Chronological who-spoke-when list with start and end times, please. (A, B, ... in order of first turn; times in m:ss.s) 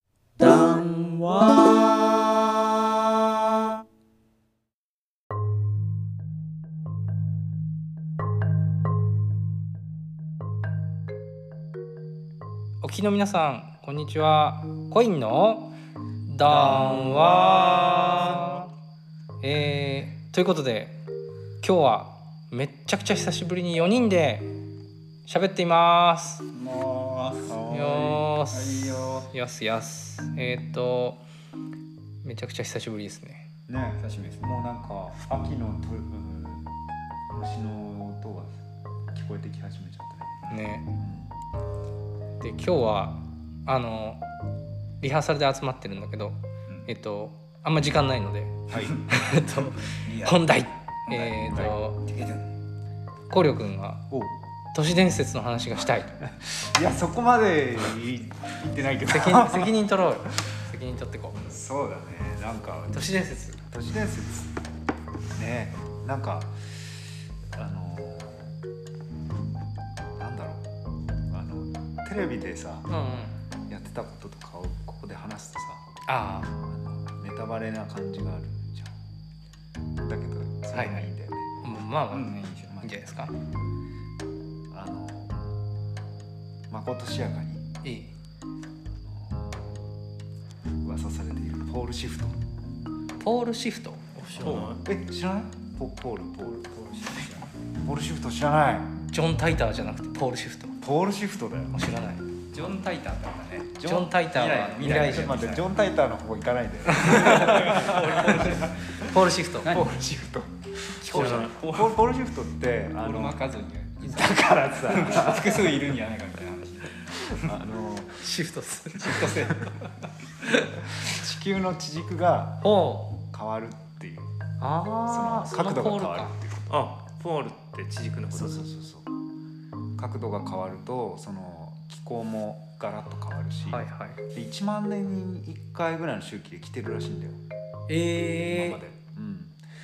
0:00.4-0:02.2 A
0:12.8-0:15.7 A
0:16.3-0:18.6 A
0:16.5-0:18.6 B
0:19.4-0:21.0 A
0:21.6-0:24.5 A
0:25.2-0:26.5 A
0:26.5-0:29.3 C
0:27.5-0:28.1 D
0:27.7-0:31.2 A
0:32.2-0:33.4 A
0:33.7-0:36.7 D
0:34.0-0:34.5 C
0:37.3-0:40.4 D
0:40.5-0:40.9 A
0:41.0-0:41.4 D
0:42.4-0:44.2 A
0:45.0-0:52.0 A
0:48.7-0:49.0 D
0:48.7-0:49.0 C
0:50.0-0:50.5 C
0:51.0-0:52.5 C
0:53.3-0:54.0 A
0:54.1-0:54.3 D
0:54.7-0:56.2 A
0:56.2-0:59.7 D
0:59.1-1:01.4 A
1:01.5-1:03.1 D
1:02.9-1:03.6 A
1:03.6-1:04.5 D
1:05.3-1:08.6 D
1:10.2-1:10.6 D
1:11.3-1:12.9 D
1:12.9-1:13.4 A
1:13.7-1:15.8 D
1:16.0-1:16.5 A
1:16.6-1:18.9 D
1:20.0-1:21.5 D
1:20.7-1:21.1 A
1:21.6-1:23.3 A
1:22.1-1:22.8 C
1:22.7-1:23.0 D
1:24.7-1:25.4 D
1:26.7-1:27.6 D
1:27.8-1:28.1 A
1:29.0-1:29.8 D
1:30.8-1:32.4 D
1:33.2-1:34.1 A
1:34.2-1:34.8 B
1:34.4-1:36.6 D
1:36.4-1:37.5 C
1:37.8-1:38.9 D
1:39.1-1:40.8 A
1:40.8-1:41.8 D
1:41.7-1:42.3 A
1:42.5-1:43.8 C
1:43.8-1:44.2 D
1:43.8-1:45.6 A
1:44.3-1:45.6 C
1:44.8-1:47.9 D
1:47.0-1:49.0 C
1:47.0-1:47.7 A
1:47.4-1:48.7 B
1:48.9-1:49.8 A
1:49.6-1:49.9 C
1:49.6-1:53.4 D
1:51.0-1:52.0 C
1:51.1-1:51.6 B
1:51.1-1:51.5 A
1:53.0-1:57.5 C
1:54.0-1:55.7 D
1:57.4-1:58.3 D
1:58.2-1:59.4 A
1:59.0-1:59.9 C
2:01.0-2:02.6 D
2:02.6-2:03.2 A
2:03.2-2:04.3 D
2:04.6-2:06.3 A
2:05.1-2:06.8 D
2:06.7-2:08.6 B
2:08.3-2:09.1 D
2:10.0-2:17.4 D
2:13.6-2:14.2 A
2:17.9-2:18.8 A
2:18.5-2:19.6 D